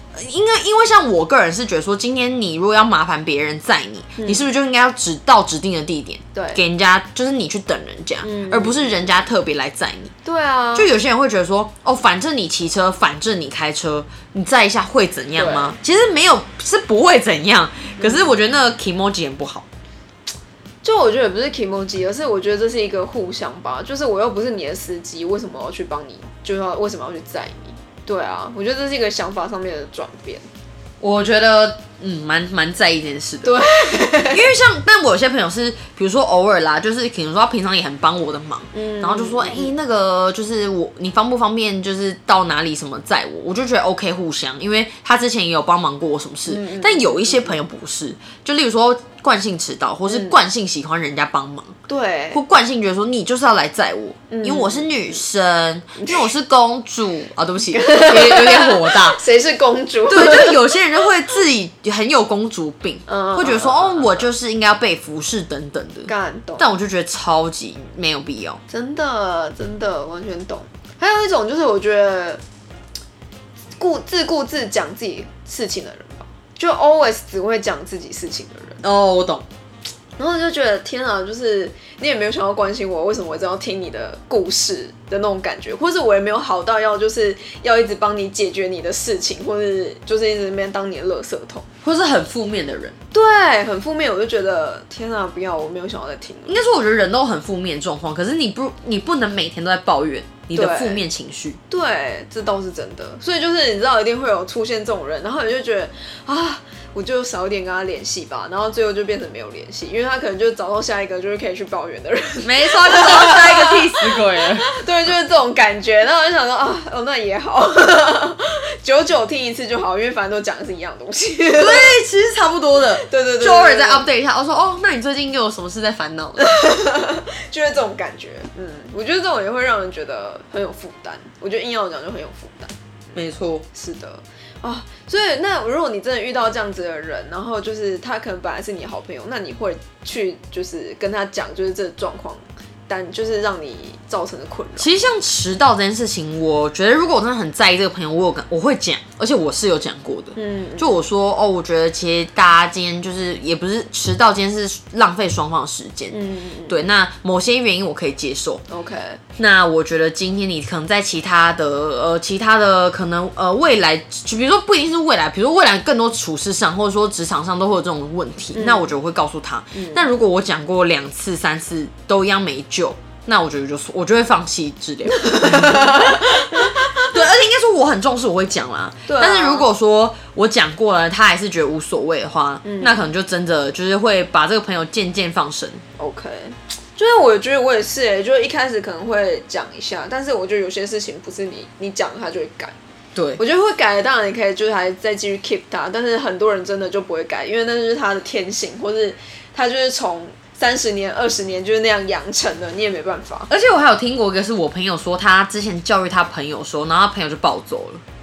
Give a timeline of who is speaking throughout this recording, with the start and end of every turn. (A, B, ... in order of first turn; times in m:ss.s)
0:00.1-0:10.1 A
0:04.2-0:04.5 B
0:06.4-0:06.6 B
0:08.2-0:09.0 B
0:10.2-0:10.9 B
0:10.8-0:19.7 A
0:15.4-0:15.8 B
0:18.0-0:18.3 B
0:20.8-0:30.4 B
0:31.0-0:51.8 A
0:33.4-0:34.5 B
0:38.7-0:39.7 B
0:46.5-0:47.6 B
0:50.1-0:50.4 B
0:51.9-0:52.4 B
0:52.3-0:59.2 A
0:54.3-0:55.2 B
0:57.7-1:00.7 B
1:00.1-1:08.6 A
1:03.1-1:04.3 B
1:06.1-1:06.7 B
1:08.7-1:12.4 B
1:13.8-1:18.8 B
1:18.8-1:19.5 A
1:20.2-1:31.7 B
1:31.8-1:33.0 A
1:33.1-1:36.6 B
1:36.5-1:41.6 A
1:40.5-1:41.0 B
1:41.7-2:02.0 B
1:52.4-1:54.8 A
2:01.6-2:06.5 A
2:03.0-2:04.1 B
2:06.4-2:12.7 B
2:13.2-2:13.6 A
2:13.7-2:24.9 B
2:24.8-2:38.6 A
2:30.4-2:31.0 B
2:36.1-2:36.8 B
2:38.7-2:39.2 B
2:39.4-3:05.8 A
2:48.5-2:48.9 B
2:49.7-2:50.0 B
2:55.2-2:57.1 B
2:59.1-2:59.7 B
3:02.6-3:03.0 B
3:06.0-3:12.8 B
3:13.2-3:13.4 A
3:13.4-3:23.5 B
3:23.5-3:28.0 A